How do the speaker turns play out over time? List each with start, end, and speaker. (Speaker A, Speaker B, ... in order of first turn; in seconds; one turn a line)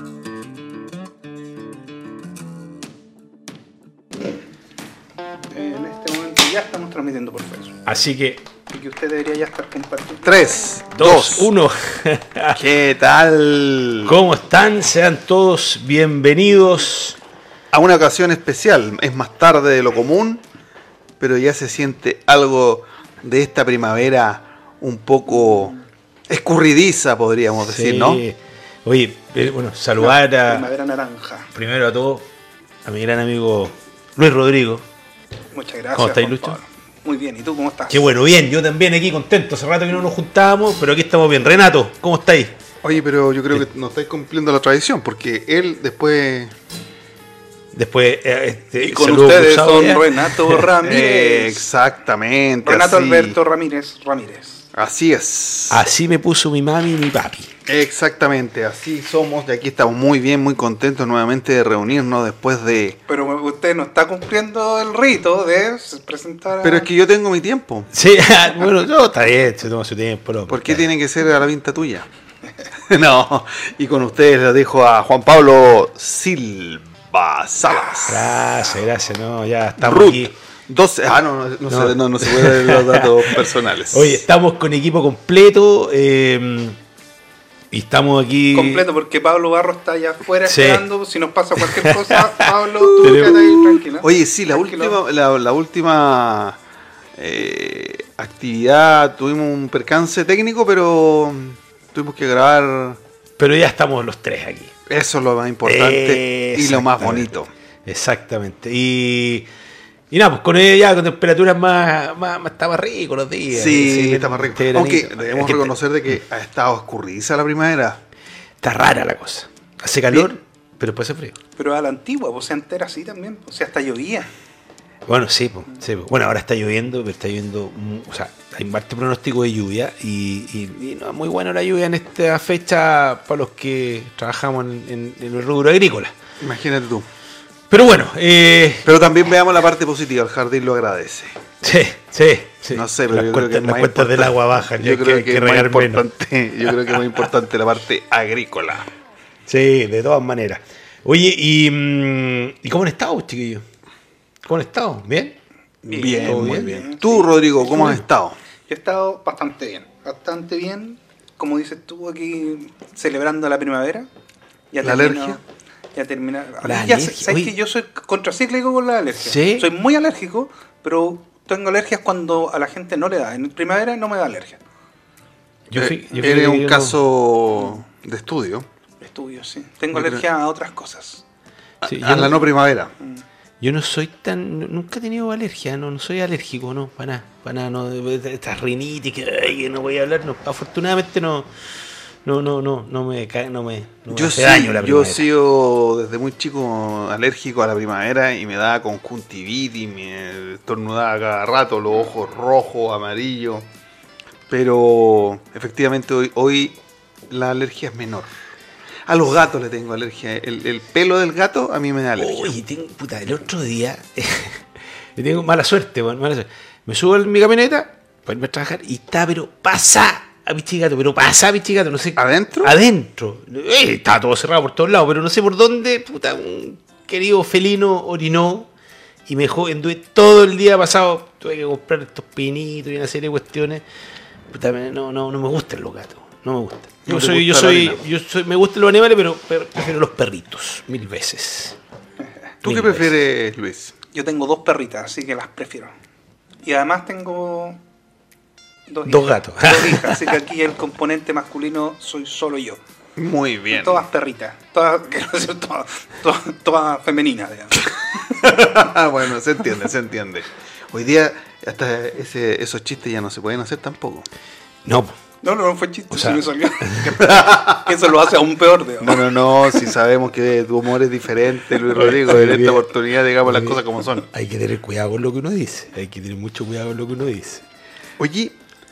Speaker A: 5.5-7.8
Speaker B: 7.8-8.4
Speaker A: 8.7-10.3
Speaker C: 10.2-11.5
Speaker B: 11.0-12.6
Speaker C: 12.6-14.1
Speaker B: 14.0-17.2
Speaker C: 17.7-20.4
Speaker C: 21.2-25.7
Speaker A: 25.4-25.8
Speaker C: 26.3-28.2
Speaker B: 27.6-30.7
Speaker A: 30.0-31.5
Speaker B: 31.5-32.3
Speaker B: 32.8-34.8
Speaker A: 35.5-38.0
Speaker B: 36.0-36.6
Speaker B: 37.9-42.5
Speaker C: 42.8-46.5
Speaker B: 47.7-50.6
Speaker A: 48.8-51.6
Speaker C: 50.8-53.4
Speaker A: 52.6-54.7
Speaker C: 54.7-55.8
Speaker B: 55.7-57.5
Speaker C: 57.6-63.0
Speaker A: 63.1-66.9
Speaker C: 66.6-67.9
Speaker B: 67.9-70.9
Speaker C: 70.5-72.1
Speaker C: 72.8-78.3
Speaker B: 78.0-80.3
Speaker C: 79.8-84.2
Speaker B: 81.7-86.8
Speaker B: 87.7-88.8
Speaker A: 88.5-95.0
Speaker B: 90.4-90.8
Speaker B: 91.6-93.8
Speaker C: 94.0-96.6
Speaker C: 97.2-103.0
Speaker B: 103.4-104.7
Speaker C: 104.9-107.5
Speaker B: 105.6-107.3
Speaker B: 107.8-109.5
Speaker B: 110.1-115.7
Speaker C: 113.5-118.0
Speaker B: 118.6-121.4
Speaker A: 121.6-124.3
Speaker B: 125.0-136.1
Speaker C: 136.4-137.1
Speaker B: 137.7-138.9
Speaker C: 138.8-141.3
Speaker B: 141.6-146.0
Speaker C: 142.7-148.9
Speaker B: 149.5-153.6
Speaker B: 154.4-155.4
Speaker A: 155.9-157.9
Speaker C: 155.9-158.4
Speaker B: 155.9-156.8
Speaker A: 158.7-164.1
Speaker A: 164.7-165.4
Speaker C: 164.8-165.4
Speaker A: 165.9-174.6
Speaker B: 166.6-167.5
Speaker B: 169.2-169.7
Speaker B: 175.7-177.0
Speaker C: 175.7-178.7
Speaker A: 179.0-181.2
Speaker C: 179.9-180.2
Speaker C: 181.8-182.9
Speaker B: 181.8-182.4
Speaker B: 183.6-191.5
Speaker B: 192.2-195.3
Speaker C: 194.1-203.7
Speaker C: 204.5-206.8
Speaker C: 207.3-208.3
Speaker C: 209.1-212.5
Speaker B: 212.2-214.6
Speaker B: 215.2-228.7
Speaker C: 222.2-222.7
Speaker B: 229.3-233.8
Speaker B: 234.5-241.8
Speaker C: 237.1-238.0
Speaker C: 242.6-243.9
Speaker B: 242.6-243.1
Speaker A: 244.1-245.9
Speaker A: 246.6-247.8
Speaker A: 248.9-252.8
Speaker B: 249.1-250.3
Speaker C: 253.2-254.0
Speaker A: 253.7-258.2
Speaker C: 258.3-264.3
Speaker B: 264.8-265.1
Speaker A: 265.4-269.3
Speaker B: 266.1-267.2
Speaker C: 267.2-267.9
Speaker C: 269.0-274.2
Speaker B: 271.9-272.9
Speaker B: 273.4-277.6
Speaker C: 278.2-278.6